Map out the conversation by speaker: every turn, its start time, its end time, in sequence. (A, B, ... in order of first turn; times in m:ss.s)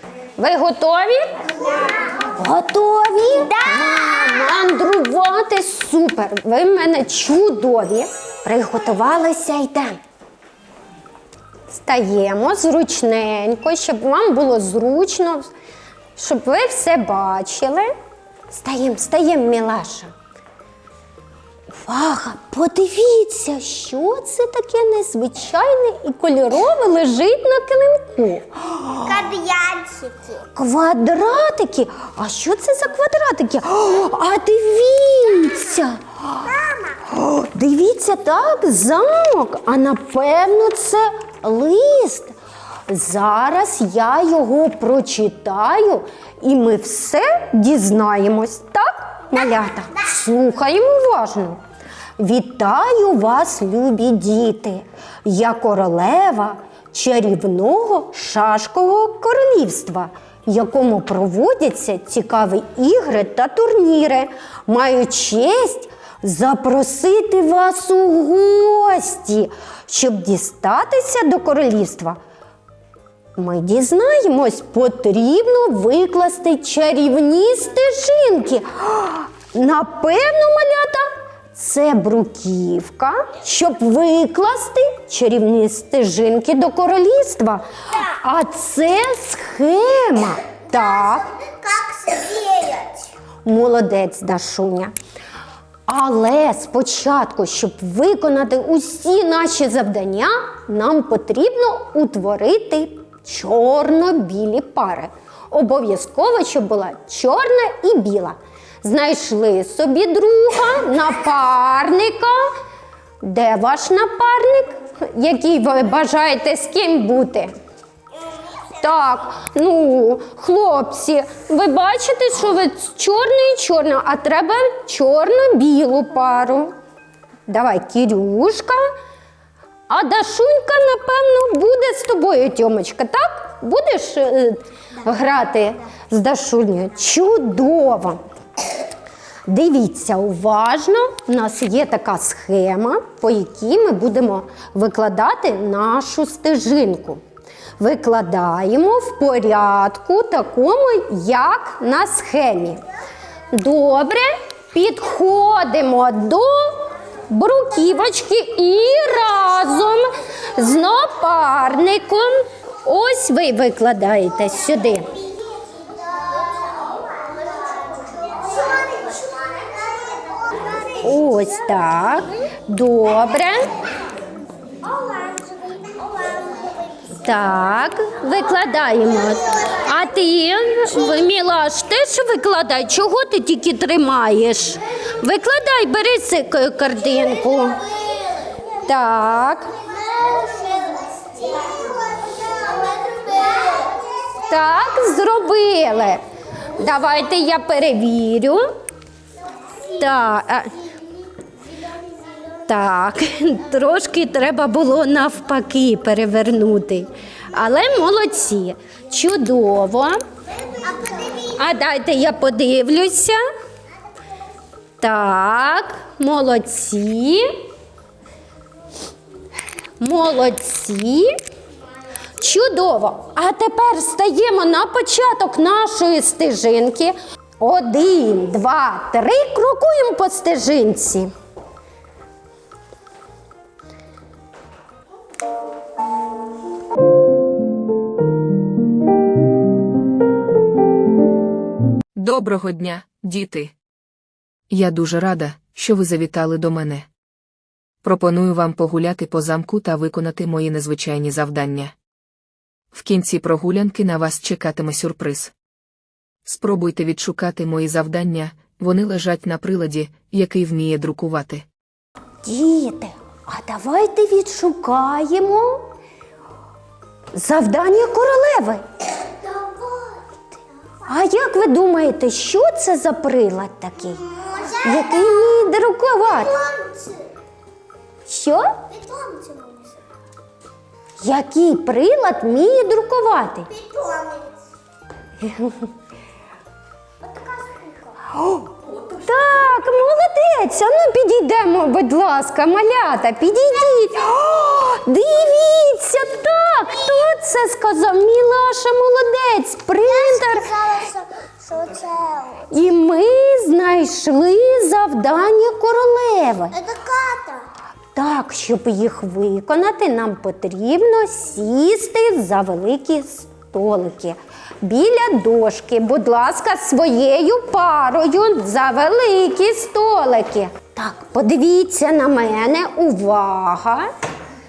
0:00.4-0:01.4 A
0:02.4-0:10.0 A
0:03.5-0:04.6 B
0:11.7-0:15.5 A
0:16.2-0:17.9 A
0:18.5-0:20.1 A
0:21.7-0:29.0 A
0:29.0-0:30.5 B
0:30.6-0:36.4 A
0:36.5-0:37.0 B
0:37.1-0:42.4 A
0:42.9-0:51.6 A
0:52.2-1:12.2 A
1:13.4-1:31.3 A
1:30.8-1:33.1 B
1:33.5-1:34.9 A
1:35.9-1:52.6 A
1:53.2-1:57.5 A
1:58.8-2:06.8 A
2:07.5-2:08.8 A
2:09.9-2:18.2 A
2:19.5-2:27.2 A
2:27.8-2:32.8 A
2:33.5-2:45.1 A
2:45.6-2:51.0 B
2:51.0-2:53.7 A
2:54.8-2:57.1 B
2:57.2-3:07.8 A
3:07.9-3:08.6 B
3:08.9-3:09.7 A
3:09.8-3:14.4 B
3:14.5-3:16.2 A
3:16.8-3:18.7 A
3:20.0-3:20.7 A
3:21.9-3:22.4 B
3:22.7-3:30.2 A
3:30.6-3:31.6 B
3:31.6-3:33.4 A
3:35.0-3:37.6 A
3:40.0-3:41.4 A
3:42.4-3:51.3 A
4:02.2-4:03.7 C
4:04.7-4:07.1 C
4:08.0-4:11.9 C
4:12.9-4:15.5 C
4:16.4-4:21.6 C
4:22.4-4:25.8 A
4:27.3-4:28.8 A
4:29.4-4:30.2 B
4:31.1-4:34.2 A
4:34.3-4:35.2 B
4:34.8-4:36.5 A
4:36.4-4:37.3 B
4:38.3-4:38.8 A
4:38.9-4:40.0 B
4:41.2-4:43.7 A
4:43.7-4:44.6 B
4:45.4-4:45.9 A
4:47.3-4:47.9 B
4:48.4-5:00.7 A
5:00.1-5:02.7 B
5:02.7-5:06.8 A
5:06.7-5:07.7 B
5:08.2-5:24.1 A